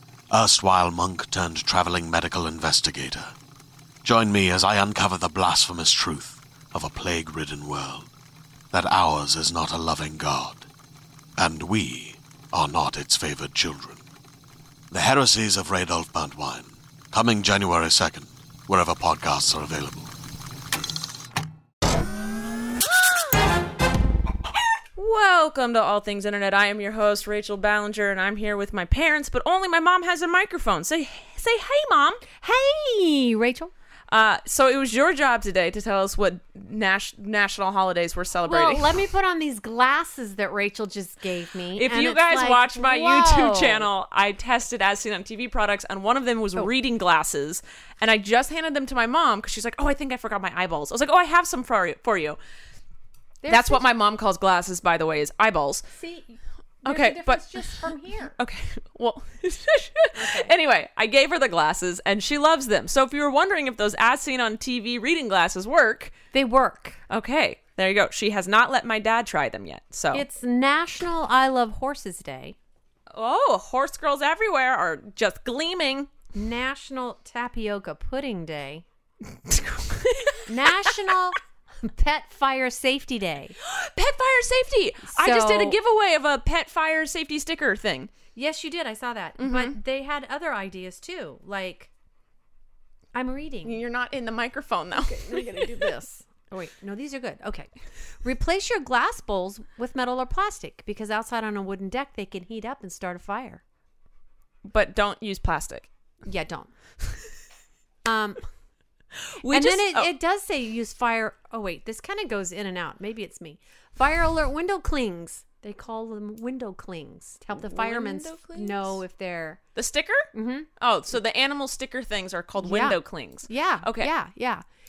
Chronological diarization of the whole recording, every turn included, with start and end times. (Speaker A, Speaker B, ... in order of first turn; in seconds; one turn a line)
Speaker A: 0.3-3.4
Speaker A: 4.0-8.1
Speaker A: 8.7-10.7
Speaker A: 11.4-14.0
Speaker A: 14.9-20.1
Speaker B: 25.0-32.2
Speaker C: 32.4-33.7
Speaker B: 34.1-39.0
Speaker C: 38.5-43.9
Speaker B: 41.8-52.4
Speaker C: 53.4-53.9
Speaker B: 53.5-55.8
Speaker C: 55.9-58.4
Speaker B: 56.9-66.1
Speaker C: 60.1-60.5
Speaker C: 66.3-67.0
Speaker B: 67.1-70.2
Speaker C: 70.1-72.6
Speaker B: 73.1-76.1
Speaker C: 76.3-78.8
Speaker B: 79.5-81.1
Speaker C: 80.5-83.5
Speaker B: 83.6-88.1
Speaker C: 85.1-85.8
Speaker C: 88.3-91.9
Speaker B: 89.4-89.7
Speaker C: 93.1-93.8
Speaker B: 93.7-95.9
Speaker C: 95.0-97.7
Speaker C: 98.2-103.6
Speaker B: 104.7-105.9
Speaker C: 106.2-106.7
Speaker C: 108.1-108.4
Speaker B: 109.4-110.1
Speaker C: 109.5-119.6
Speaker B: 117.5-119.0
Speaker B: 119.8-124.1
Speaker C: 120.3-120.7
Speaker C: 122.6-124.6